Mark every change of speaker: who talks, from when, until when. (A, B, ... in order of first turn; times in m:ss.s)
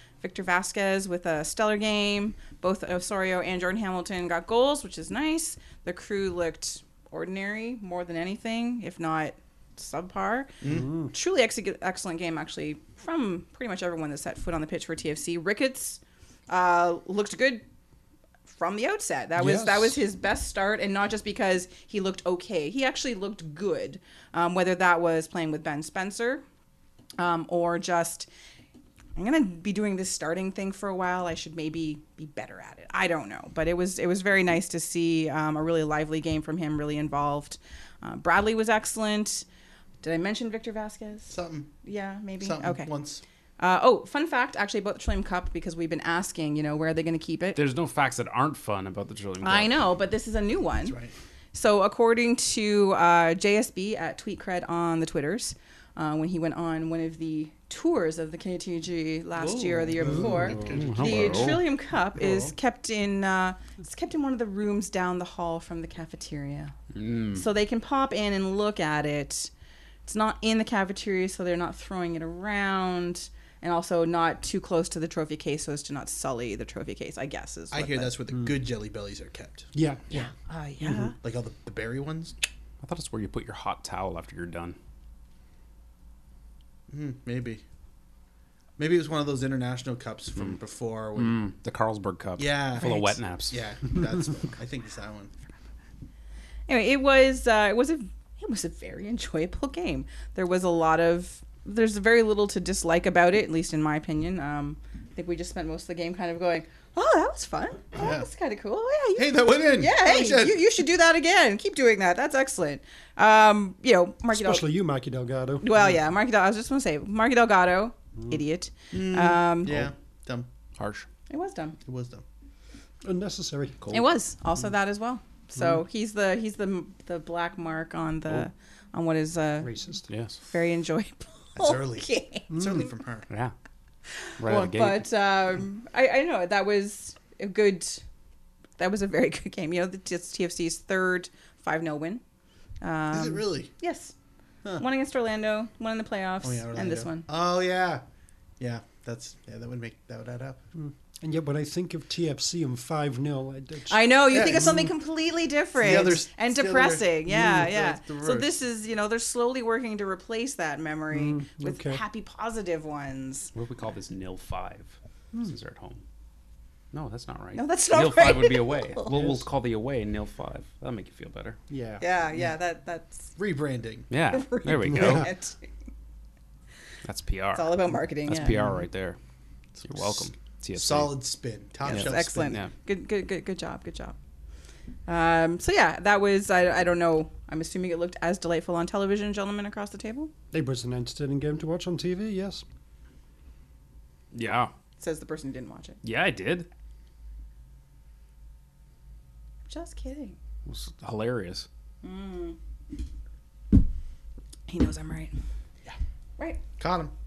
0:00.2-0:10.6 A
0:10.6-0:10.9 B
0:10.7-0:11.1 C
0:11.1-0:17.6 A
0:18.4-0:26.4 A
0:19.4-0:20.0 C
0:27.2-0:28.3 A
0:29.2-0:39.5 A
0:40.0-0:42.9 A
0:41.3-0:41.7 B
0:42.4-0:43.2 B
0:43.6-0:47.6 A
0:47.6-0:49.8 D
0:49.4-0:51.0 A
0:50.8-0:51.1 B
0:51.5-1:06.7 A
0:59.4-1:01.6 B
1:00.0-1:00.8 C
1:00.7-1:01.6 D
1:02.2-1:02.5 B
1:06.9-1:07.4 D
1:07.3-1:09.5 A
1:10.0-1:18.1 A
1:17.7-1:19.7 B
1:18.3-1:18.6 C
1:19.7-1:20.0 C
1:20.1-1:21.2 A
1:21.2-1:22.4 B
1:22.8-1:24.8 D
1:26.9-1:27.6 B
1:28.8-1:31.5 B
1:31.2-1:33.6 D
1:32.4-1:35.3 B
1:32.8-1:33.1 A
1:36.7-1:54.7 A
1:48.0-1:48.3 B
1:49.2-1:50.6 B
1:54.3-1:55.8 C
1:55.6-1:59.8 A
1:58.9-2:00.5 B
2:00.8-2:01.1 D
2:01.3-2:01.8 A
2:01.8-2:02.2 B
2:03.0-2:03.8 C
2:03.8-2:04.1 D
2:03.9-2:09.7 A
2:09.6-2:10.1 C
2:10.1-2:10.4 D
2:10.4-2:12.5 A
2:11.6-2:13.3 B
2:12.5-2:12.8 C
2:14.2-2:18.0 A
2:14.4-2:15.1 D
2:18.8-2:22.2 A
2:22.8-2:24.1 A
2:23.1-2:23.7 B
2:24.8-2:27.3 A
2:26.4-2:28.0 B
2:28.6-2:30.6 B
2:30.8-2:34.9 C
2:33.9-2:43.5 A
2:34.3-2:34.9 B
2:35.8-2:38.5 B
2:37.3-2:37.6 C
2:41.1-2:42.0 C
2:43.5-2:46.0 D
2:46.9-2:51.6 D
2:47.6-2:49.1 A
2:49.1-2:49.5 C
2:51.7-2:52.1 C
2:52.0-2:53.3 A
2:53.4-2:54.1 B
2:54.1-2:55.3 D
2:54.3-2:55.7 A
2:57.0-2:59.2 D
2:57.5-2:58.6 A
2:58.3-2:58.8 C
2:59.8-3:00.2 B
2:59.8-3:01.3 D
3:00.8-3:02.6 B
3:01.8-3:04.2 A
3:01.9-3:02.7 D
3:05.1-3:10.3 A
3:10.5-3:12.6 C
3:14.3-3:14.7 D
3:15.0-3:16.0 A
3:16.0-3:16.7 D
3:19.7-3:20.4 A
3:20.7-3:21.7 D
3:22.0-3:22.6 A
3:24.7-3:25.3 A
3:26.8-3:27.1 B